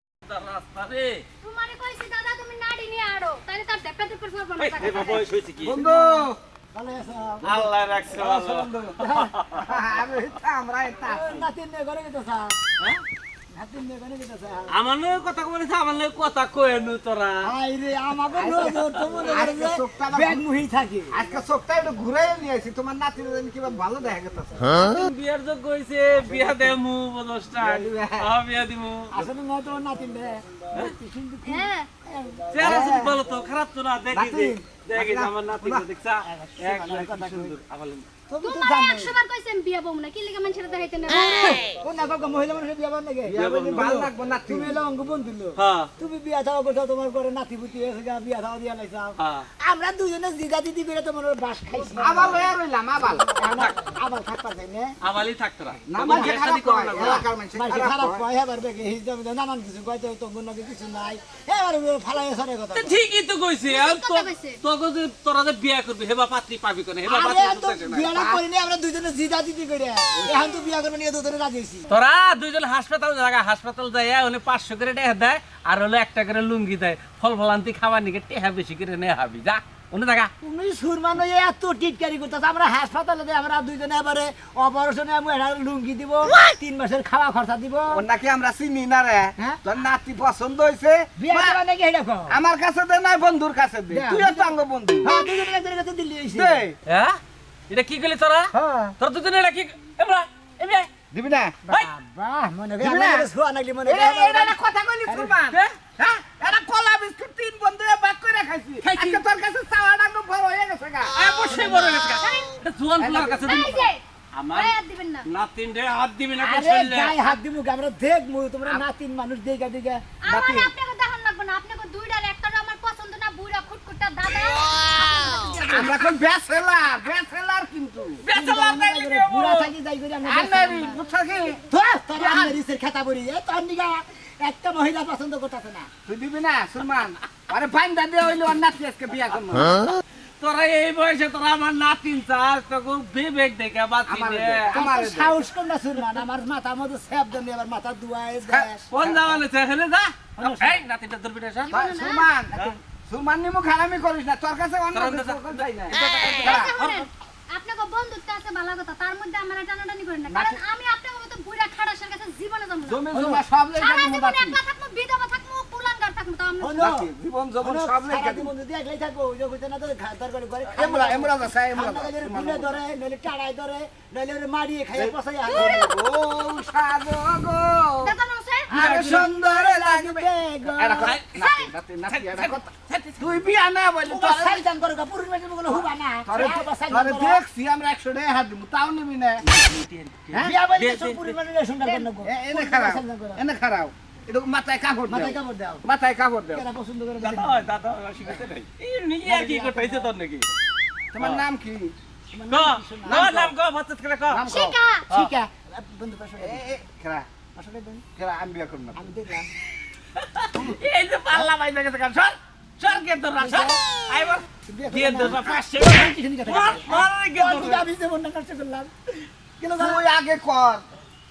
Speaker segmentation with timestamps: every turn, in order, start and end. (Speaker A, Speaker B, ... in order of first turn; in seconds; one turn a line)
Speaker A: 0.3-1.2
Speaker B: 1.4-5.3
Speaker A: 4.6-6.0
Speaker C: 5.6-6.4
Speaker D: 6.7-7.5
Speaker A: 7.4-9.7
Speaker C: 8.1-9.0
Speaker D: 9.0-9.3
Speaker C: 9.6-11.5
Speaker D: 11.1-12.6
Speaker D: 13.5-14.8
Speaker A: 14.7-17.5
Speaker D: 17.4-21.2
Speaker C: 18.4-20.4
Speaker A: 18.7-19.3
Speaker C: 21.1-25.0
Speaker A: 24.7-29.1
Speaker C: 27.6-28.3
Speaker D: 29.1-33.1
Speaker B: 31.4-31.9
Speaker A: 32.5-38.1
Speaker C: 32.6-33.1
Speaker C: 34.1-35.9
Speaker D: 36.2-37.6
Speaker D: 38.3-39.2
Speaker B: 38.4-41.6
Speaker D: 41.2-52.5
Speaker C: 43.3-44.8
Speaker A: 43.4-43.9
Speaker A: 45.6-45.9
Speaker A: 49.2-49.5
Speaker C: 52.0-53.3
Speaker D: 53.4-55.0
Speaker A: 55.0-57.2
Speaker C: 55.9-58.2
Speaker D: 56.1-56.4
Speaker D: 57.0-63.0
Speaker A: 62.8-68.2
Speaker B: 63.6-64.6
Speaker D: 67.0-71.9
Speaker A: 71.9-80.3
Speaker D: 80.4-88.0
Speaker C: 87.9-91.6
Speaker D: 91.2-92.4
Speaker C: 92.3-95.1
Speaker D: 93.9-96.6
Speaker C: 96.3-96.8
Speaker A: 96.9-100.9
Speaker D: 98.5-98.9
Speaker C: 101.1-101.6
Speaker D: 101.7-105.4
Speaker C: 102.8-103.3
Speaker C: 103.9-111.2
Speaker D: 108.8-109.2
Speaker A: 111.2-113.7
Speaker B: 111.2-112.5
Speaker C: 113.0-113.8
Speaker B: 113.4-115.3
Speaker A: 114.3-114.7
Speaker A: 115.2-117.2
Speaker D: 116.4-120.0
Speaker B: 120.2-125.9
Speaker C: 120.3-120.7
Speaker C: 125.7-128.2
Speaker A: 128.3-129.7
Speaker D: 128.3-131.0
Speaker C: 130.2-131.6
Speaker D: 131.7-135.9
Speaker C: 132.2-132.5
Speaker C: 136.1-139.9
Speaker A: 140.4-144.7
Speaker C: 144.1-145.4
Speaker D: 144.7-148.8
Speaker C: 148.4-149.4
Speaker A: 148.9-151.8
Speaker D: 150.4-150.8
Speaker B: 151.7-152.3
Speaker C: 151.7-156.7
Speaker A: 154.9-157.1
Speaker B: 156.2-163.0
Speaker C: 160.3-160.6
Speaker C: 162.8-164.6
Speaker D: 163.1-163.4
Speaker B: 163.8-166.8
Speaker D: 166.6-167.1
Speaker C: 166.8-168.5
Speaker D: 167.6-175.9
Speaker C: 170.7-172.7
Speaker C: 174.9-178.2
Speaker B: 178.1-178.7
Speaker D: 178.7-181.2
Speaker C: 178.7-184.6
Speaker A: 181.0-183.1
Speaker D: 184.1-187.4
Speaker C: 185.7-189.4
Speaker A: 189.5-191.3
Speaker D: 190.4-193.4
Speaker C: 192.2-196.6
Speaker D: 195.1-195.8
Speaker D: 196.5-197.7
Speaker A: 197.2-200.5
Speaker D: 199.3-200.1
Speaker C: 201.1-201.9
Speaker A: 201.2-201.4
Speaker D: 202.3-203.5
Speaker A: 202.5-204.5
Speaker C: 203.1-203.5
Speaker C: 204.3-204.8
Speaker B: 204.5-205.1
Speaker D: 205.1-206.6
Speaker C: 206.4-207.3
Speaker D: 207.6-208.0
Speaker C: 208.2-209.0
Speaker D: 209.0-209.5
Speaker A: 210.2-217.9
Speaker D: 211.3-211.8
Speaker D: 213.4-213.8
Speaker D: 214.7-220.0
Speaker C: 219.8-220.8